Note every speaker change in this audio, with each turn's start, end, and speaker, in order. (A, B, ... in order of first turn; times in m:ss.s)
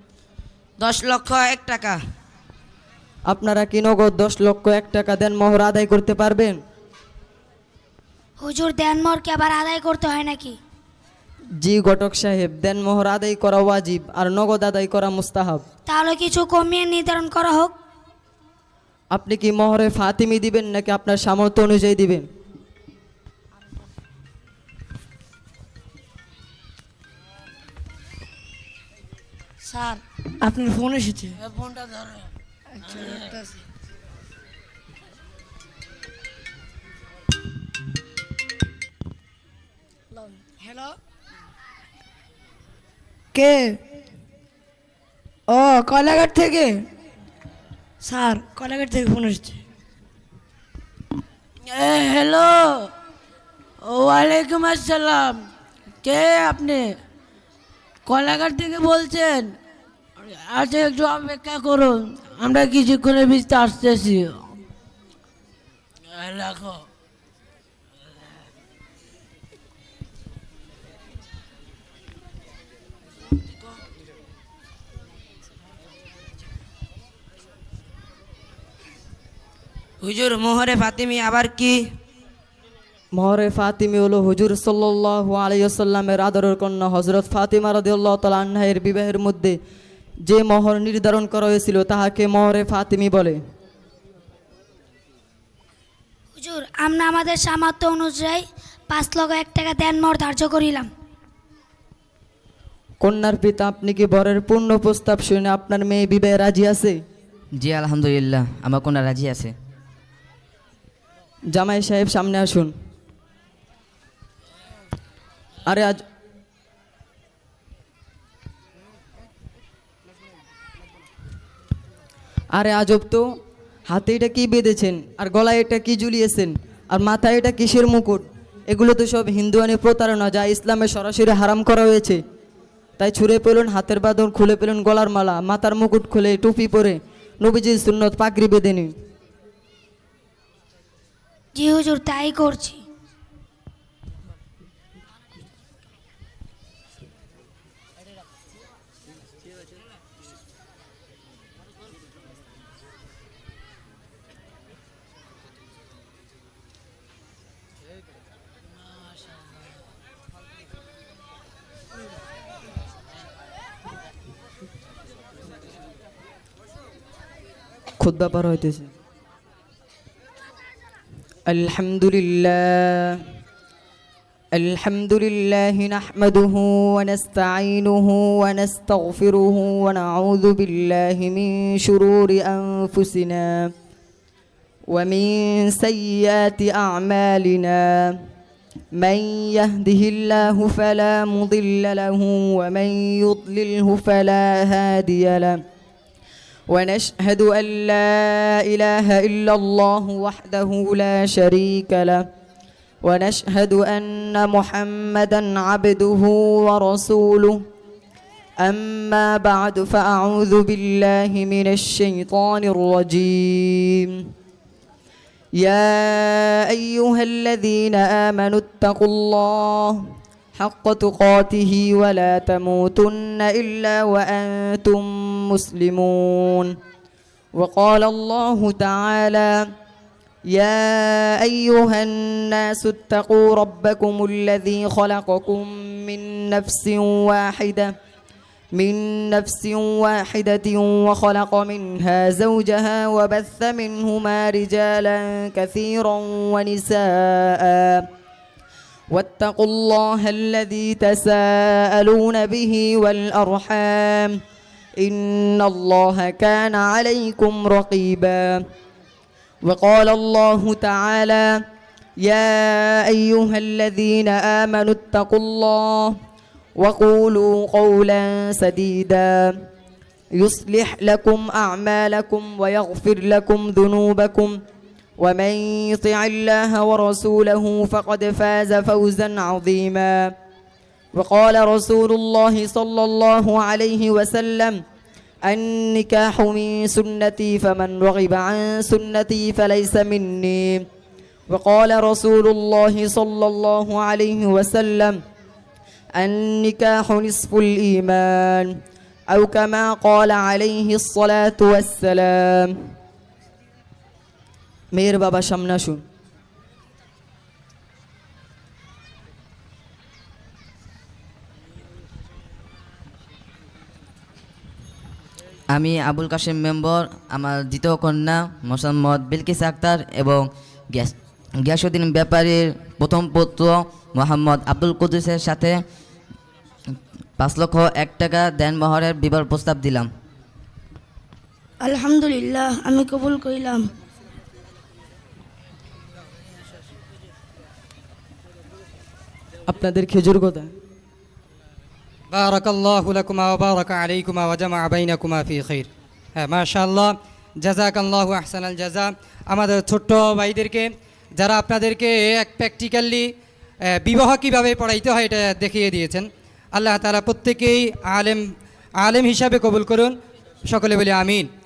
0:00.8-0:02.0 A
0:03.3-0:06.6 B
0:08.4-0:10.6 C
0:11.6-0:15.6 B
0:15.9-0:17.7 C
0:19.1-0:22.2 B
0:29.6-0:31.4 D
0:31.4-0:33.4 E
0:32.8-0:33.6 D
0:40.2-0:41.0 D
0:43.3-0:43.8 D
0:45.5-0:46.9 D
0:48.0-0:49.6 D
0:51.7-0:52.9 E
0:53.8-0:55.4 E
0:56.0-0:56.8 E
0:58.0-0:59.5 E
1:00.2-1:04.4 E
1:06.1-1:06.9 E
1:20.0-1:21.8 A
1:23.1-1:29.6 B
1:30.2-1:33.4 B
1:36.4-1:40.9 C
1:43.0-1:47.0 B
1:47.6-1:49.5 F
1:51.5-1:52.7 B
1:55.6-1:56.0 B
2:02.5-2:03.2 B
2:03.9-2:12.2 B
2:13.0-2:18.9 B
2:21.5-2:22.8 C
2:48.0-2:48.9 B
2:51.5-2:53.2 B
2:54.5-3:03.7 B
3:04.9-3:08.2 B
3:09.0-3:15.6 B
3:16.7-3:22.2 B
3:23.0-3:27.6 B
3:28.6-3:34.3 B
3:35.6-3:40.0 B
3:40.6-3:46.7 B
3:47.5-3:49.6 B
3:50.5-3:57.9 B
3:58.7-4:08.1 B
4:09.1-4:14.4 B
4:15.0-4:18.6 B
4:19.6-4:21.6 B
4:22.2-4:26.1 B
4:26.8-4:29.6 B
4:30.3-4:34.6 B
4:35.2-4:40.3 B
4:41.1-4:44.8 B
4:45.4-4:50.8 B
4:51.5-4:55.2 B
4:56.2-4:58.8 B
4:59.3-5:02.7 B
5:04.9-5:06.0 B
5:15.7-5:25.8 F
5:27.4-5:30.1 F
5:31.8-5:33.9 D
5:39.7-5:40.7 B
5:42.3-5:53.3 G
5:54.0-5:58.4 G
5:59.0-6:00.1 G
6:00.7-6:01.5 G